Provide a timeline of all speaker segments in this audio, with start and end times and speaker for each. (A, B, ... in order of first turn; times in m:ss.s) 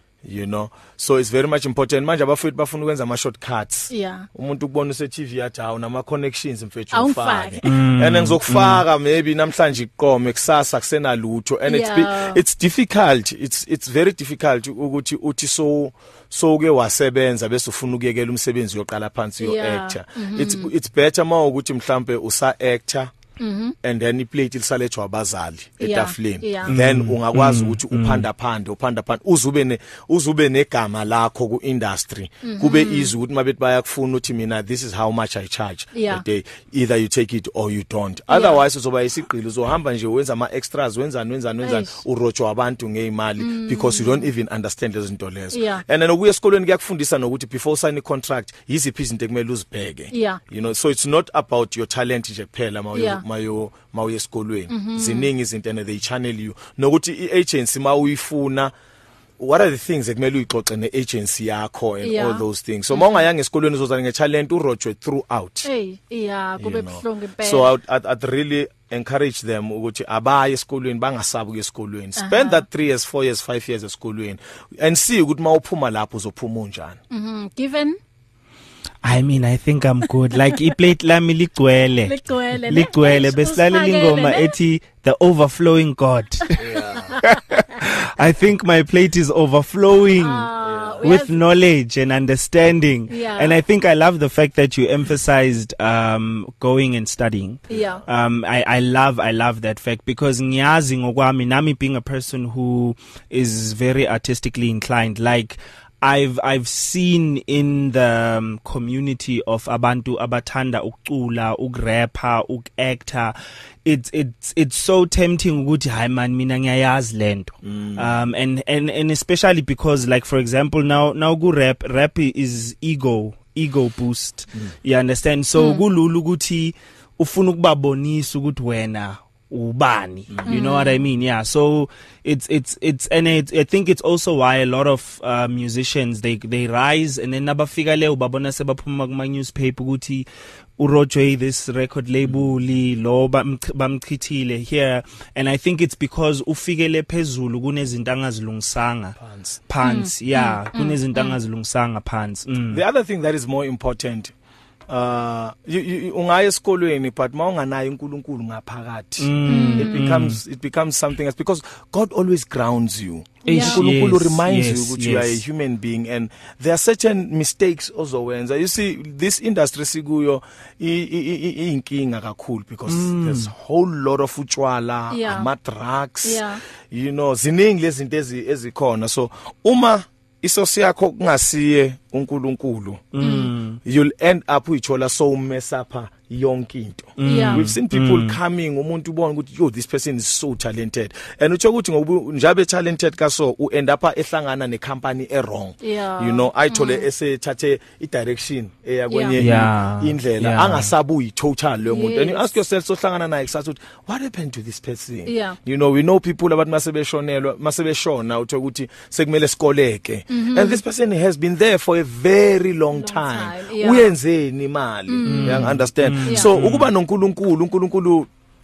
0:00.2-0:23.1 A
0:03.9-0:04.3 B
0:06.9-0:07.6 B
0:07.6-0:08.8 C
0:11.7-0:12.4 B
0:19.4-0:20.7 B
0:23.4-0:23.8 B
0:23.8-0:58.7 A
0:25.8-0:26.7 B
0:26.7-0:28.3 C
0:32.4-0:33.1 B
0:35.9-0:36.2 B
0:38.3-0:38.6 B
0:41.6-0:42.0 B
0:43.4-0:44.3 B
0:45.5-0:45.8 B
0:50.1-0:50.4 B
0:52.9-0:53.2 B
0:54.7-0:55.3 B
0:59.4-1:05.7 A
1:02.0-1:03.2 B
1:05.6-1:07.7 B
1:06.6-1:17.0 A
1:12.2-1:12.6 B
1:17.1-1:18.0 B
1:19.0-1:30.5 C
1:22.0-1:24.6 B
1:26.6-1:27.1 A
1:30.2-1:31.4 B
1:30.6-1:31.1 A
1:31.0-2:20.2 C
1:33.1-1:33.6 B
1:37.7-1:38.0 A
1:37.7-1:38.0 B
1:57.7-1:58.1 A
2:05.6-2:05.8 B
2:10.4-2:11.0 B
2:20.8-2:29.2 C
2:29.2-2:29.6 A
2:29.7-2:32.8 C
2:29.8-2:31.4 B
2:32.7-2:34.3 A
2:34.9-3:03.1 A
2:39.2-2:40.4 C
2:39.5-2:40.0 B
2:43.4-2:43.8 B
2:43.4-2:45.4 C
2:52.9-2:53.5 C
2:55.1-2:55.5 B
2:56.2-2:56.6 B
3:03.1-3:03.8 C
3:03.2-3:03.5 B
3:03.8-3:38.3 A
3:07.2-3:08.4 C
3:07.2-3:07.7 B
3:15.8-3:17.0 B
3:19.1-3:19.4 B
3:19.4-3:20.9 C
3:21.8-3:22.6 B
3:25.2-3:25.6 B
3:30.3-3:30.8 B
3:32.9-3:34.1 B
3:35.1-3:35.7 B
3:35.2-3:36.9 C
3:36.2-3:36.5 B